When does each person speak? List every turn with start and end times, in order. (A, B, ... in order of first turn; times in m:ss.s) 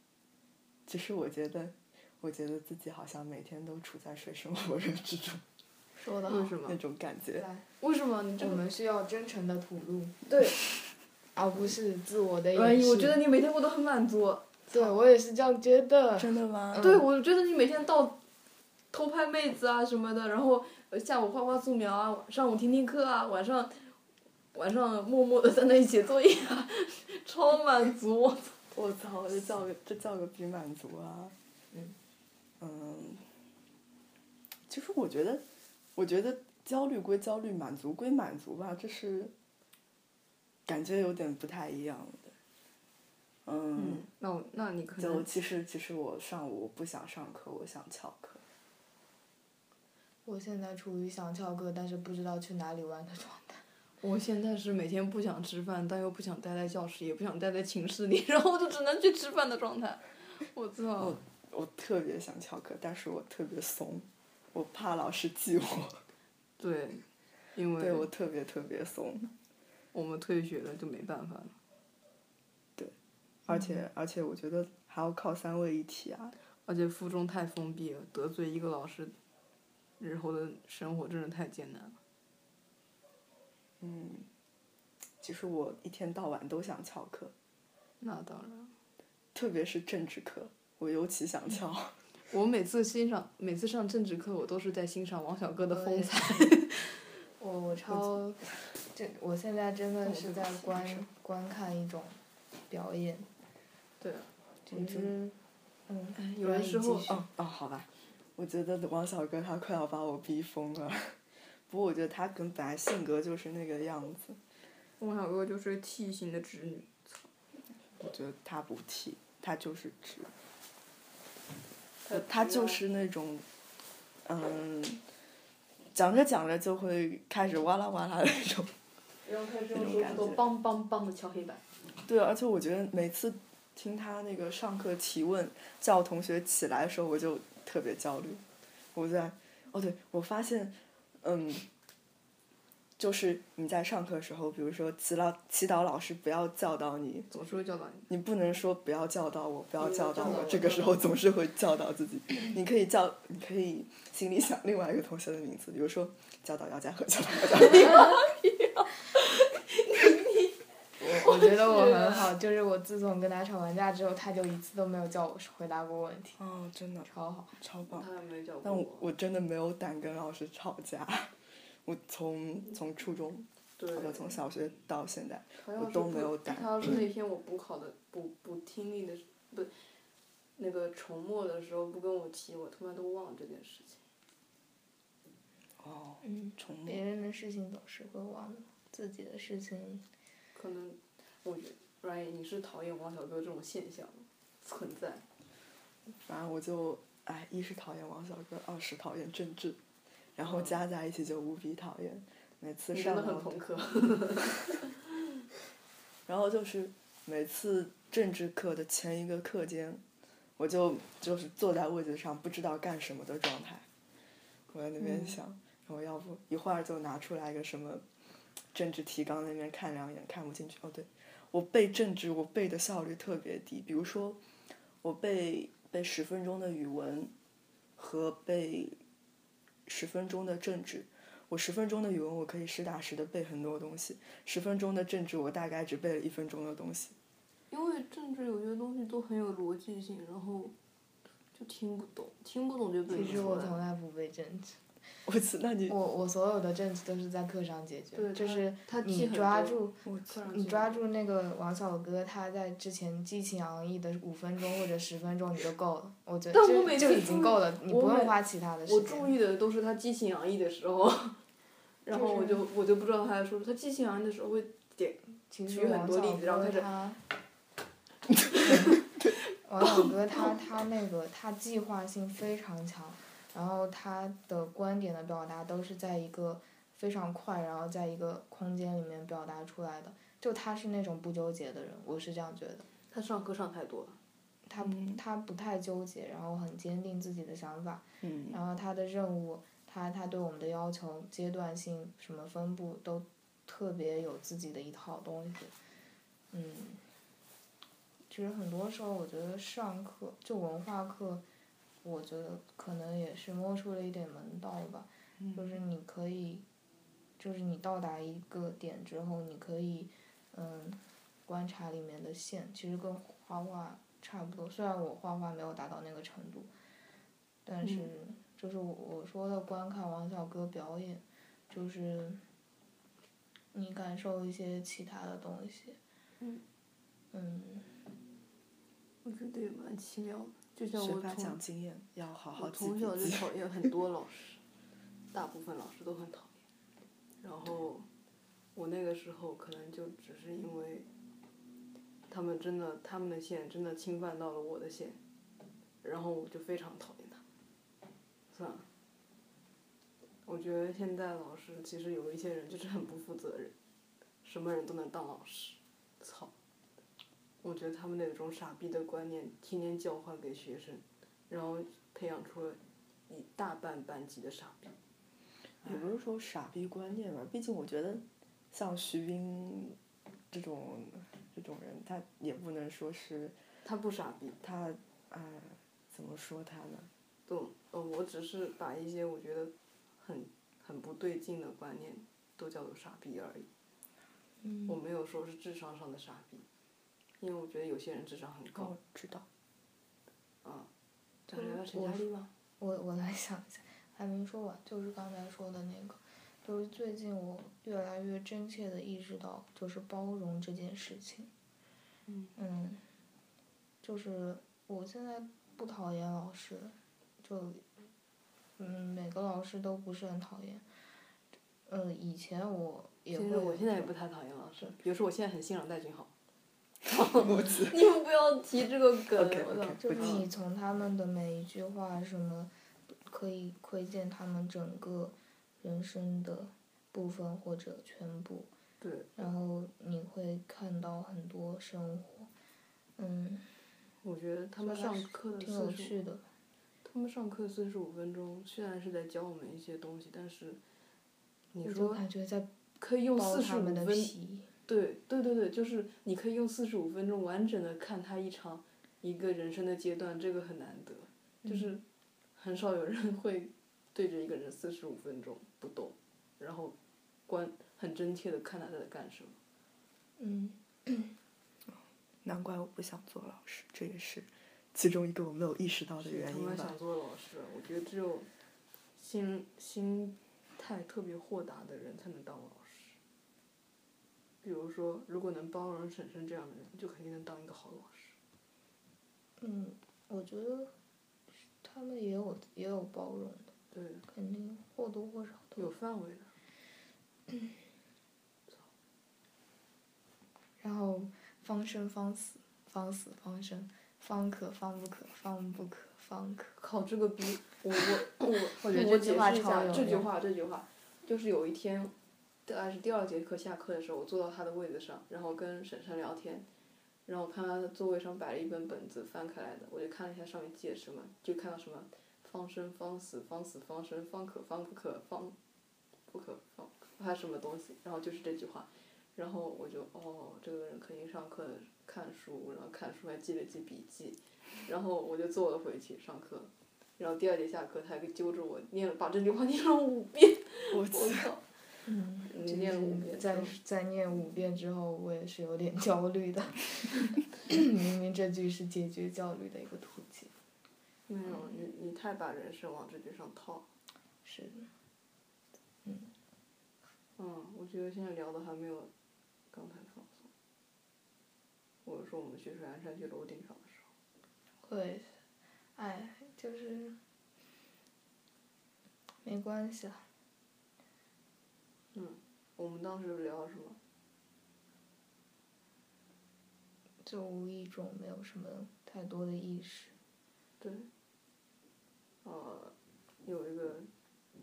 0:00.9-0:05.4 A
0:06.0-0:06.6 B
0:06.3-0:06.8 C
0:06.7-0:07.5 A
0:07.4-0:07.7 B
0:07.8-0:08.6 C
0:08.4-0:10.2 B
0:10.3-0:10.6 C
0:11.4-0:13.2 B
0:12.5-0:14.8 C
0:14.7-0:17.0 B
0:16.2-0:16.9 A
0:16.8-0:18.2 C
0:18.9-0:24.0 C
0:24.5-0:28.6 C
0:28.7-0:31.4 A
0:32.6-0:33.2 A
0:34.7-0:39.3 A
0:40.7-0:42.4 A
0:43.4-0:44.1 A
0:43.8-0:45.3 C
0:45.0-0:48.4 A
0:50.2-0:53.6 B
0:54.0-1:01.2 C
1:01.0-1:06.0 A
1:06.6-1:08.1 C
1:07.8-1:09.3 A
1:09.9-1:11.6 C
1:13.5-1:16.4 A
1:16.7-1:19.2 C
1:20.0-1:22.0 C
1:23.8-1:24.3 A
1:25.2-1:27.3 A
1:28.0-1:28.8 C
1:29.4-1:32.0 A
1:32.3-1:37.0 C
1:35.7-1:36.5 B
1:37.4-1:43.3 B
1:40.0-1:41.1 C
1:44.0-1:44.3 C
1:44.7-1:47.2 B
1:44.7-1:45.1 A
1:46.2-1:47.1 C
1:47.1-1:54.4 A
1:55.0-1:57.3 C
1:58.0-2:00.3 A
2:02.0-2:02.8 C
2:02.1-2:03.5 A
2:04.2-2:05.0 A
2:05.9-2:08.7 A
2:09.2-2:11.6 C
2:09.7-2:10.4 A
2:12.0-2:21.7 A
2:23.0-2:27.3 A
2:27.3-2:28.1 C
2:28.1-2:38.0 A
2:29.8-2:31.0 C
2:37.6-2:40.6 C
2:41.0-2:46.4 B
2:41.1-2:42.3 C
2:46.4-2:48.1 A
2:47.0-2:47.6 B
2:47.9-2:49.1 C
2:48.6-2:57.0 A
2:53.8-2:54.4 C
2:55.6-2:59.7 C
3:00.6-3:04.0 C
3:05.8-3:07.0 A
3:06.2-3:10.1 B
3:10.6-3:15.3 C
3:16.2-3:19.8 A
3:20.4-3:23.6 A
3:20.4-3:20.8 C
3:22.9-3:24.8 C
3:26.3-3:30.0 A
3:30.6-3:33.9 A
3:34.7-3:38.0 A
3:38.7-3:44.4 A
3:45.0-3:47.3 A
3:48.0-3:49.0 A
3:49.9-3:57.2 A
3:57.7-4:00.8 C
4:01.5-4:03.8 C
4:03.1-4:04.8 B
4:03.1-4:03.5 A
4:05.3-4:06.0 A
4:05.9-4:19.4 B
4:08.2-4:11.0 C
4:16.5-4:21.4 C
4:22.0-4:26.9 C
4:22.1-4:22.7 B
4:25.5-4:27.2 B
4:28.6-4:29.0 B
4:29.6-4:42.9 B
4:43.1-4:44.2 C
4:44.7-4:55.7 B
4:44.8-4:45.2 A
4:48.2-4:48.6 A
4:56.5-4:57.0 B
4:58.3-5:01.4 B
5:02.0-5:06.7 B
5:05.4-5:05.8 A
5:07.4-5:16.7 B
5:17.6-5:22.4 B
5:17.8-5:18.1 C
5:23.7-5:26.0 B
5:27.3-5:28.0 B
5:29.2-5:31.6 C
5:31.0-5:33.6 A
5:32.6-5:34.6 C
5:35.3-5:36.6 C
5:37.4-5:38.1 C
5:38.8-5:41.1 C
5:42.3-5:45.2 C
5:46.0-5:47.4 C
5:48.5-5:48.9 C
5:50.4-5:53.7 C
5:54.4-5:56.5 C
5:57.6-6:04.9 C
6:05.8-6:10.0 A
6:10.5-6:13.6 A
6:13.8-6:14.6 C
6:14.6-6:17.1 A
6:17.5-6:23.7 C
6:24.6-6:25.0 B
6:24.9-6:26.7 C
6:27.4-6:28.9 C
6:28.7-6:29.5 A
6:30.6-6:30.9 C
6:31.5-6:32.5 C
6:31.5-6:32.3 B
6:32.8-6:41.5 B
6:42.3-6:42.5 C
6:42.6-6:43.0 B
6:44.0-6:47.9 B
6:48.8-6:50.9 B
6:51.9-6:54.1 B
6:53.3-6:56.3 C
6:57.1-7:00.4 C
6:57.4-6:58.0 A
6:59.3-7:00.4 A
7:00.0-7:08.7 B
7:09.0-7:09.4 C
7:09.4-7:12.5 B
7:13.2-7:13.7 B
7:14.2-7:16.2 C
7:14.8-7:16.5 B
7:17.0-7:20.8 C
7:21.7-7:22.2 C
7:21.8-7:22.7 B
7:23.0-7:24.3 C
7:23.4-7:24.7 B
7:24.9-7:32.0 C
7:31.6-7:32.0 B
7:32.6-7:37.0 C
7:37.5-7:39.6 C
7:40.4-7:41.4 B
7:42.4-7:47.0 A
7:46.2-7:48.5 C
7:49.2-7:53.2 C
7:54.6-7:58.4 C
7:59.6-8:00.9 B
8:01.8-8:03.7 B
8:03.9-8:04.3 C
8:04.3-8:05.9 B
8:05.8-8:06.5 C
8:10.8-8:16.8 B
8:16.8-8:22.1 C
8:18.5-8:20.3 B
8:22.6-8:26.7 C
8:27.3-8:35.6 C
8:36.3-8:51.6 C
8:50.9-8:51.6 A
8:52.0-9:00.5 B
8:52.5-8:53.8 C
9:01.3-9:03.9 C
9:04.4-9:04.9 B
9:06.0-9:06.3 B
9:07.4-9:09.1 C
9:09.7-9:10.5 C
9:12.0-9:14.1 C
9:14.8-9:15.4 B
9:16.0-9:17.2 B
9:19.4-9:20.3 B
9:22.1-9:24.0 C
9:27.2-9:30.2 B
9:30.8-9:31.1 C
9:32.4-9:34.1 C